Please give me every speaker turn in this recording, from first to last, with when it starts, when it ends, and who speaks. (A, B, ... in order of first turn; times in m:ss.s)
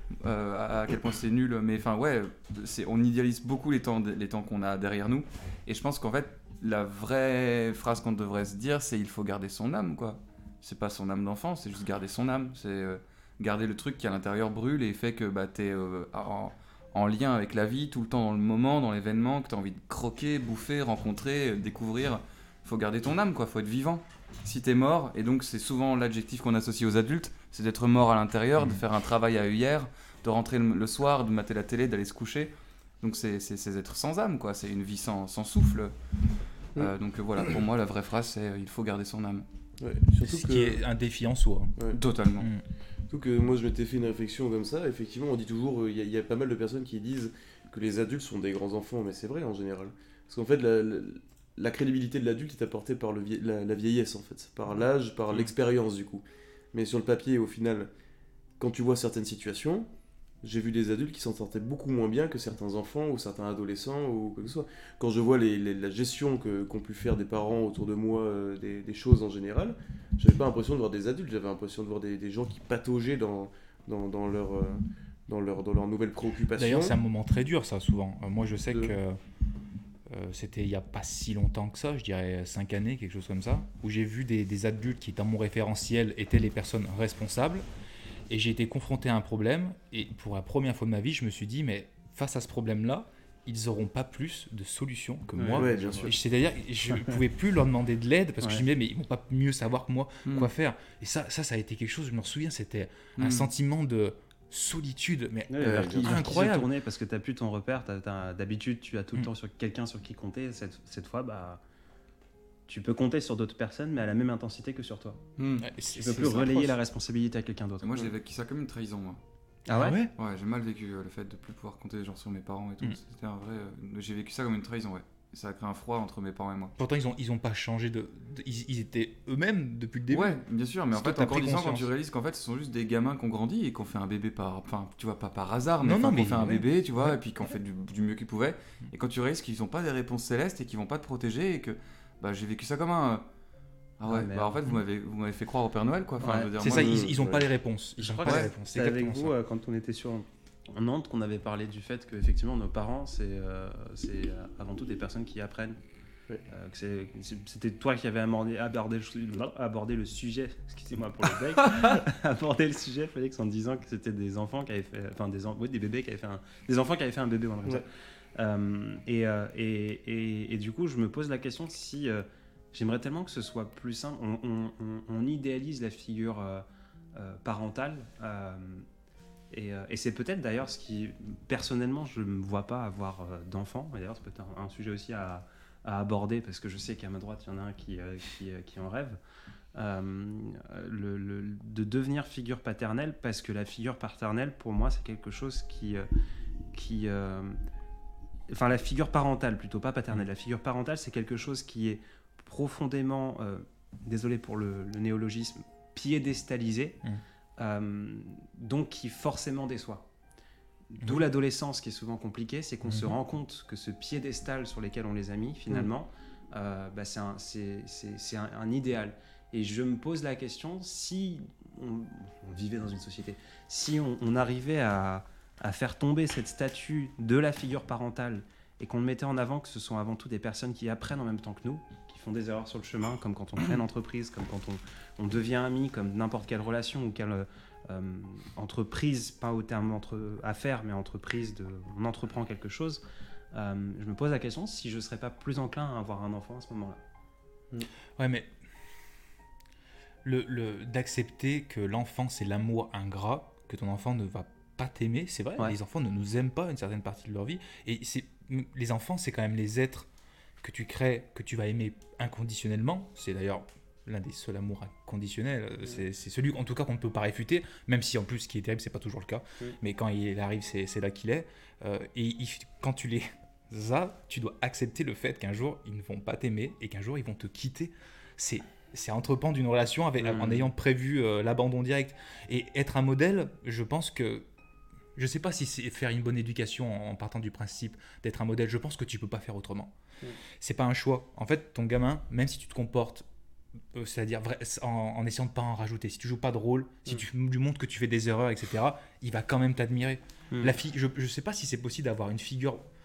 0:00.2-0:35.9 A
0:36.8-0:39.4 A
0:39.8-0:40.8 B
0:40.2-0:41.7 C
0:41.9-0:42.5 A
0:43.1-0:57.9 B
0:58.6-0:59.9 B
1:00.4-1:16.9 B
1:16.6-1:19.2 C
1:20.1-1:27.6 C
1:28.3-1:46.7 C
1:35.4-1:36.1 D
1:35.5-1:36.1 B
1:43.2-1:43.5 A
1:45.5-1:51.6 D
1:45.6-1:46.2 B
1:52.7-1:55.2 D
1:55.4-1:55.7 A
1:55.6-1:56.8 C
1:55.9-1:57.9 D
1:57.8-1:59.2 A
1:59.7-2:00.0 D
1:59.7-2:00.1 C
2:00.2-2:06.7 A
2:06.8-2:10.4 C
2:10.1-2:23.2 A
2:10.9-2:11.9 C
2:15.8-2:17.2 C
2:24.0-2:27.1 A
2:24.1-2:24.6 D
2:26.2-2:26.5 D
2:26.6-2:29.4 C
2:26.6-2:27.5 B
2:28.0-2:35.8 D
2:28.2-2:28.5 A
2:36.5-2:58.9 D
2:59.5-3:09.2 D
3:09.7-3:16.1 D
3:16.7-3:17.6 D
3:18.5-3:27.0 D
3:27.6-3:30.1 D
3:30.9-4:03.0 D
3:32.8-3:33.2 C
4:03.5-4:07.0 D
4:08.2-4:08.5 C
4:10.2-4:20.1 C
4:20.6-4:44.4 C
4:40.2-4:40.6 D
4:45.2-4:49.9 C
4:50.6-4:53.2 C
4:53.9-5:02.8 C